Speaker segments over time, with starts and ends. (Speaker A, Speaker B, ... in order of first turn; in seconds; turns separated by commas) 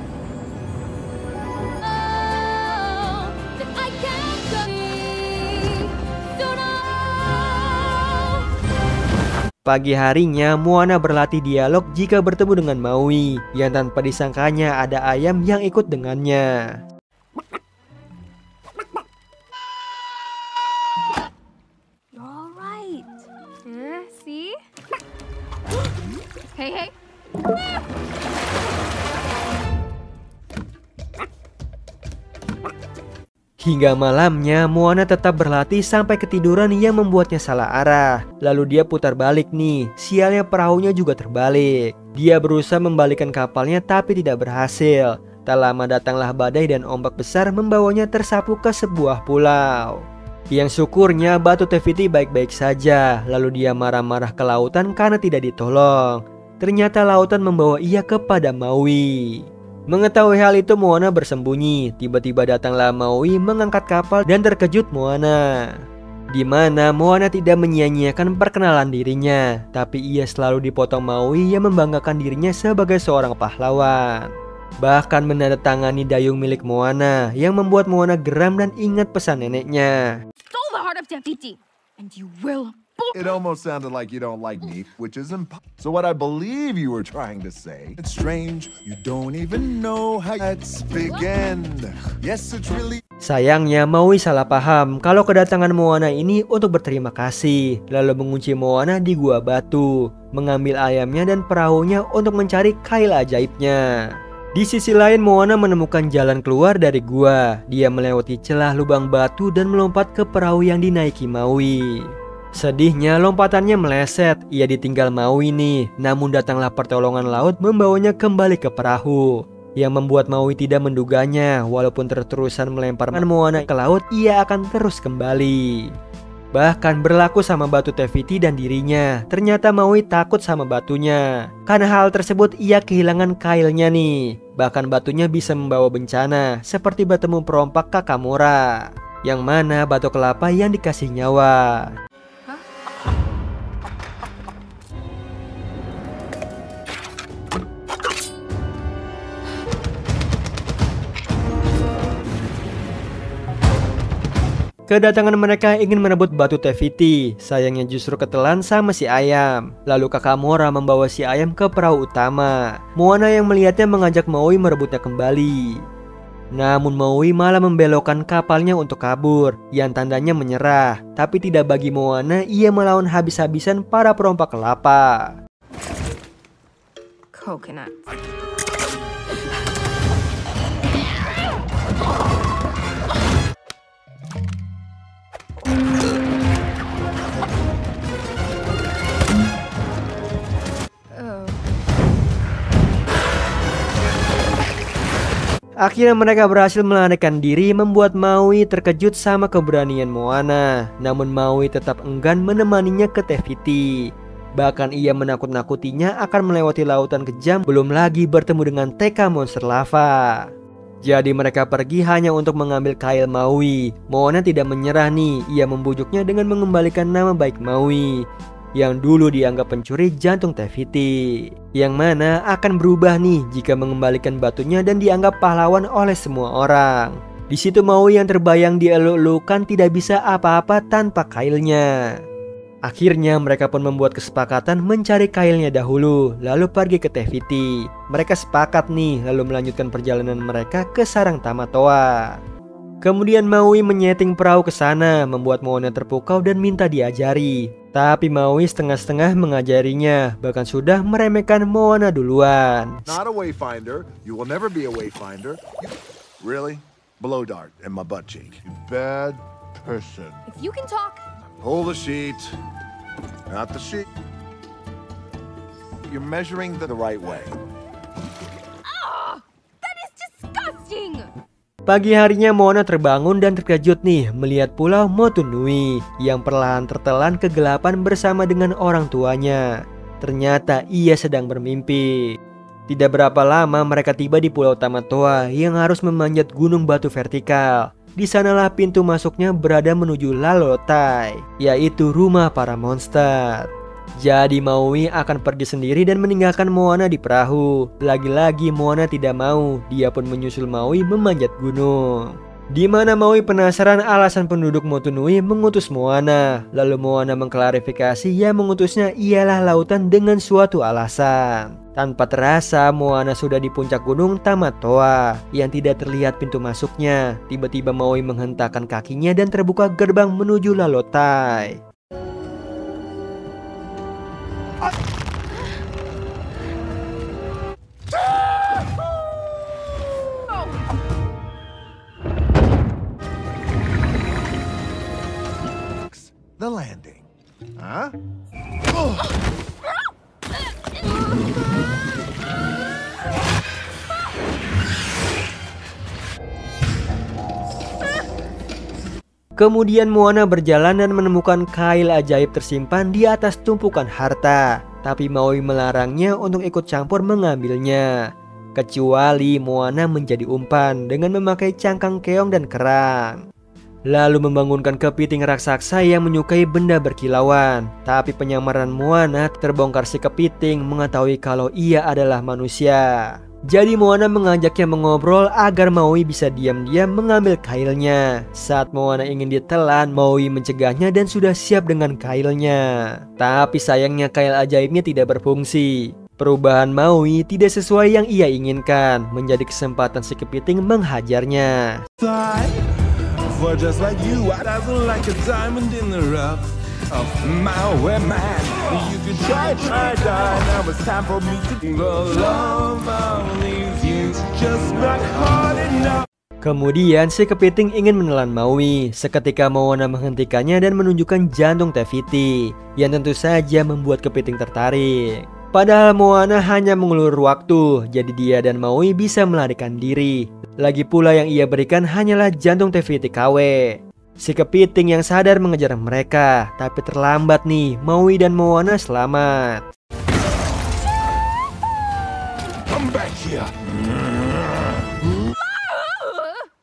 Speaker A: 1.8-8.5, Speaker B: 9.6-16.8, Speaker A: 22.1-24.6, Speaker A: 26.5-26.9, Speaker B: 33.6-80.2, Speaker A: 80.5-83.4, Speaker C: 83.1-93.0, Speaker A: 91.0-91.3, Speaker B: 93.3-125.9, Speaker B: 126.5-141.9, Speaker B: 154.9-165.8, Speaker B: 166.5-175.3, Speaker A: 177.3-178.0, Speaker A: 191.1-191.6, Speaker B: 195.8-204.0, Speaker B: 204.6-210.5, Speaker B: 211.0-232.2, Speaker B: 232.9-242.4, Speaker B: 243.0-253.2, Speaker C: 253.1-260.4, Speaker A: 260.5-261.2, Speaker C: 261.6-262.6, Speaker C: 263.5-264.1, Speaker C: 266.1-267.6, Speaker A: 268.9-271.3, Speaker B: 271.9-279.7, Speaker B: 280.2-282.3, Speaker B: 282.9-321.8, Speaker C: 336.1-338.2, Speaker B: 349.6-358.1, Speaker B: 358.8-363.4, Speaker B: 364.1-392.0, Speaker D: 392.2-406.2, Speaker B: 406.6-429.9, Speaker D: 432.9-434.3